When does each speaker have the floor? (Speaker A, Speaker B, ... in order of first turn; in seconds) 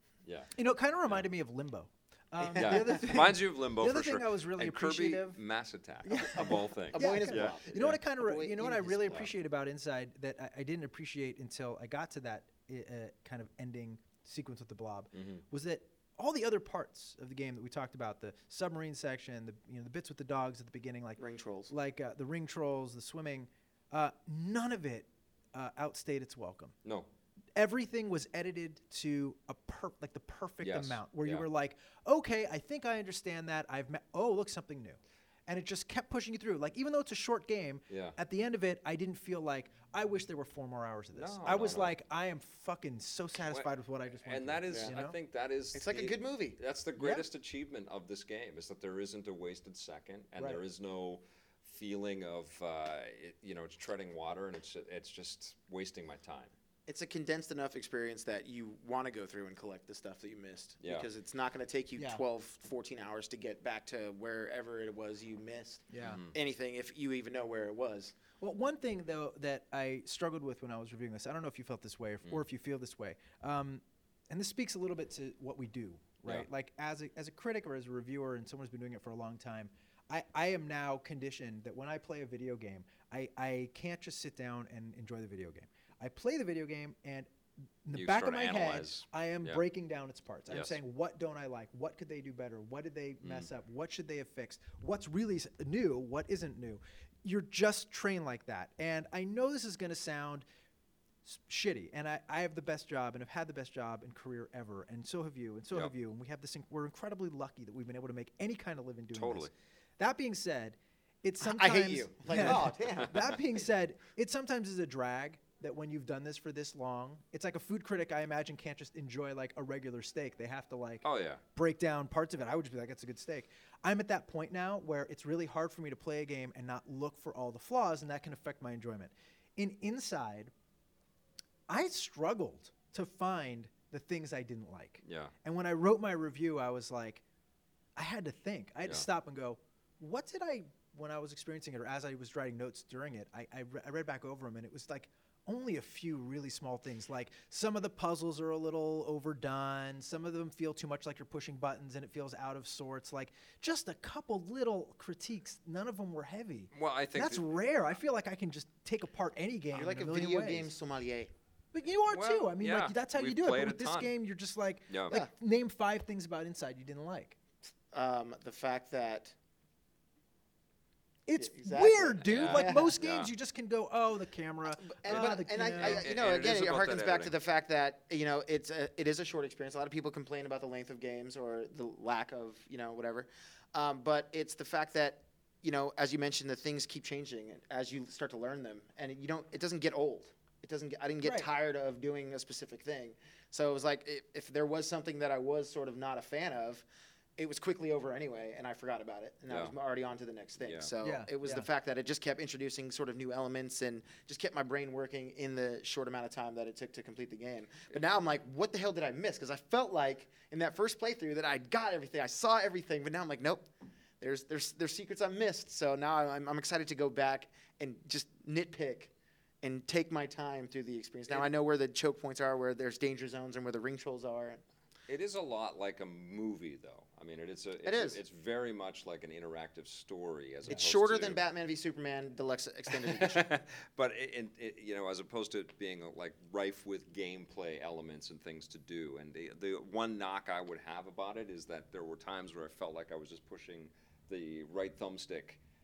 Speaker A: 0.2-0.5, 2.6-8.0, 15.1-15.4, 26.8-27.1, 30.6-31.5, 37.9-38.2, 41.1-41.9, 44.2-56.5, 60.8-61.1, 66.0-66.3, 87.9-89.6, 90.5-90.8, 93.2-93.5, 109.1-109.5, 112.4-113.0, 121.0-121.4, 135.0-135.3, 156.7-157.4, 162.1-164.1, 164.9-165.2, 172.2-173.3, 175.1-177.3, 199.5-199.7, 200.6-200.9, 225.1-231.4, 232.9-245.6
Speaker B: 0.6-5.4, 6.0-26.8, 27.6-45.2, 47.0-47.2, 62.0-62.2, 65.9-66.2, 68.4-87.3, 87.8-100.5, 101.2-130.5, 131.7-137.2, 138.0-160.7, 161.7-167.4, 171.3-176.1, 191.2-191.5, 201.0-201.7
Speaker C: 2.5-3.0, 6.4-9.2, 21.2-21.7, 45.7-46.6, 56.9-68.2, 111.4-113.3, 159.7-161.3, 167.9-169.3, 171.4-173.0, 174.9-196.9, 197.4-213.7, 214.2-219.1, 219.6-224.6, 227.8-228.2, 230.7-233.5